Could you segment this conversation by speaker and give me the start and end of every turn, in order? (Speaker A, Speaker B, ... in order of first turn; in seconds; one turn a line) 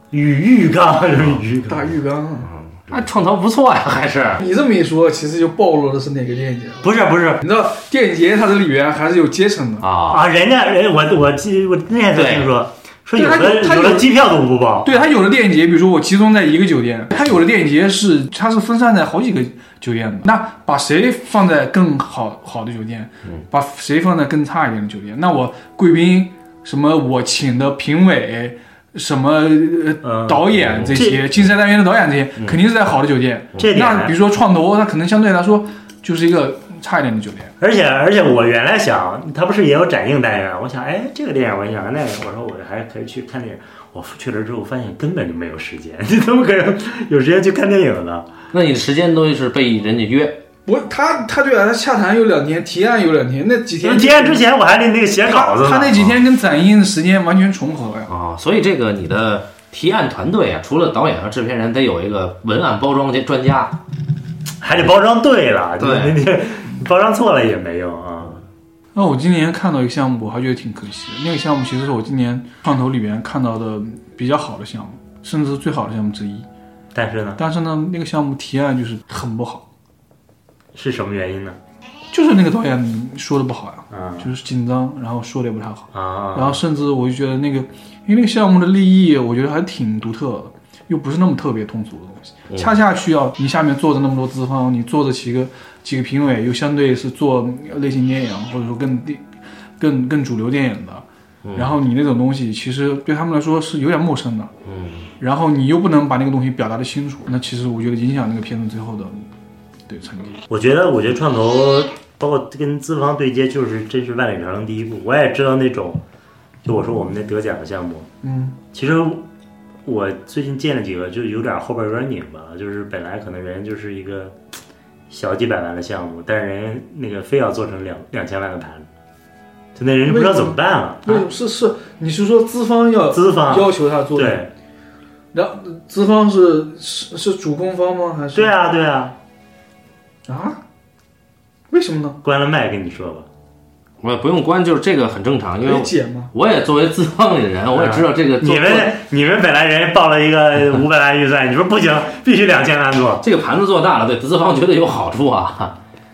Speaker A: 0.1-1.9
Speaker B: 1.6-2.5
Speaker C: 2.5-4.4
Speaker B: 4.4-9.8
Speaker A: 6.8-7.4
Speaker C: 9.8-10.2
Speaker A: 10.1-14.9
Speaker C: 12.1-12.5
Speaker B: 13.2-14.1
Speaker B: 14.8-37.5
Speaker A: 30.0-31.3
Speaker A: 33.6-34.1
Speaker A: 37.6-48.3
Speaker C: 48.5-50.4
Speaker B: 50.6-54.4
Speaker A: 53.8-56.1
Speaker B: 55.2-58.1
Speaker C: 58.1-63.8
Speaker A: 64.6-68.4
Speaker C: 65.8-66.2
Speaker B: 68.9-76.5
Speaker A: 76.9-77.4
Speaker B: 77.4-79.6
Speaker A: 80.7-81.6
Speaker B: 82.1-99.3
Speaker A: 83.9-84.3
Speaker A: 85.9-86.6
Speaker B: 99.8-101.0
Speaker C: 101.4-101.7
Speaker B: 101.5-104.5
Speaker C: 104.6-105.1
Speaker B: 105.2-109.3
Speaker B: 109.9-110.4
Speaker A: 110.5-116.0
Speaker A: 116.6-118.1
Speaker B: 118.2-118.6
Speaker A: 118.7-119.2
Speaker A: 119.8-124.3
Speaker A: 125.1-128.9
Speaker A: 129.7-131.3
Speaker B: 130.1-134.4
Speaker A: 133.1-134.5
Speaker B: 135.3-138.5
Speaker A: 138.3-139.2
Speaker B: 140.3-140.6
Speaker B: 141.7-142.2
Speaker A: 142.2-143.3
Speaker C: 144.0-148.9
Speaker B: 145.6-146.3
Speaker A: 147.7-153.2
Speaker C: 153.2-155.8